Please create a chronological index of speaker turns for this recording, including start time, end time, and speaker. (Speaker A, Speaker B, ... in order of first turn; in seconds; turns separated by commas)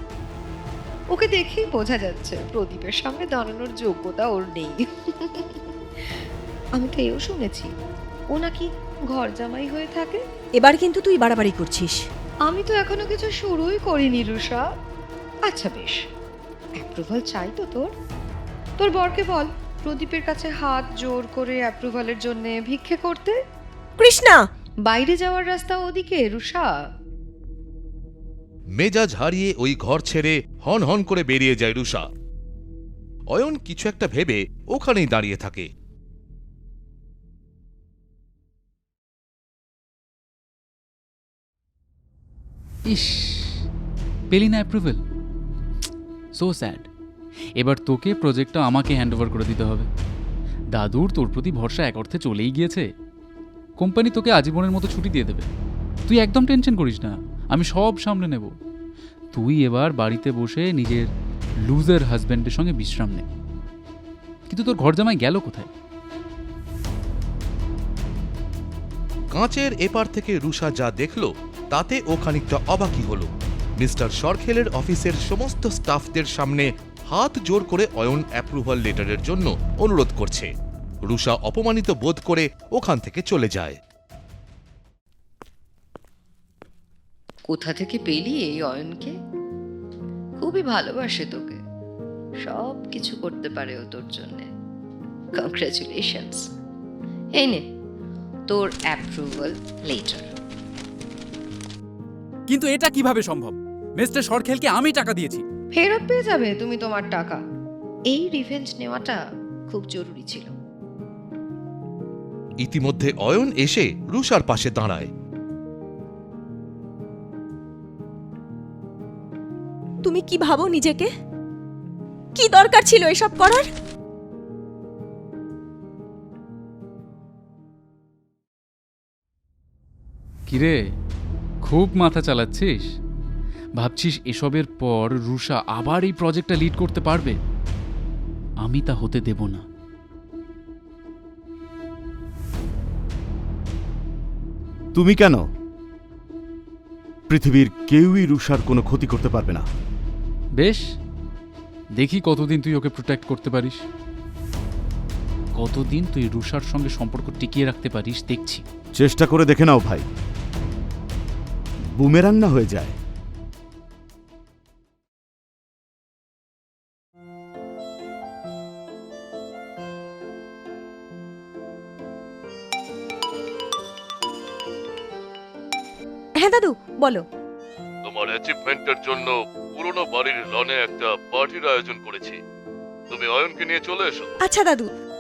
Speaker A: 1.1-6.2, Speaker A: 6.8-7.7, Speaker A: 8.3-10.2, Speaker B: 10.6-12.1, Speaker A: 12.5-14.6, Speaker A: 15.5-16.0, Speaker A: 16.8-17.9, Speaker A: 18.8-23.4, Speaker B: 24.0-24.4, Speaker A: 24.9-26.7, Speaker C: 28.8-32.0, Speaker C: 33.3-35.7, Speaker D: 42.9-43.6, Speaker D: 44.3-45.0, Speaker D: 46.4-46.9, Speaker D: 47.6-49.9, Speaker D: 50.8-52.9, Speaker D: 53.8-55.5, Speaker D: 56.1-58.5, Speaker D: 59.3-61.1, Speaker D: 61.7-63.2, Speaker D: 64.5-65.7, Speaker C: 69.3-80.5, Speaker C: 81.0-83.8, Speaker A: 87.5-89.2, Speaker A: 90.4-91.6, Speaker A: 92.4-94.5, Speaker A: 95.4-96.5, Speaker A: 97.4-97.6, Speaker A: 98.5-100.3, Speaker E: 102.5-105.4, Speaker A: 105.7-107.4, Speaker A: 108.1-109.2, Speaker A: 109.7-110.5, Speaker C: 112.6-115.1, Speaker B: 120.0-121.1, Speaker B: 122.4-123.7, Speaker D: 130.5-130.8, Speaker D: 131.6-132.9, Speaker D: 133.8-137.4, Speaker D: 138.6-139.6, Speaker F: 144.9-145.5, Speaker F: 147.3-149.7, Speaker D: 150.6-150.8, Speaker D: 152.0-153.8, Speaker D: 155.6-158.6, Speaker F: 159.0-160.1, Speaker F: 162.0-163.0, Speaker B: 176.4-177.2, Speaker C: 178.0-182.4, Speaker C: 183.1-184.3, Speaker B: 184.4-184.9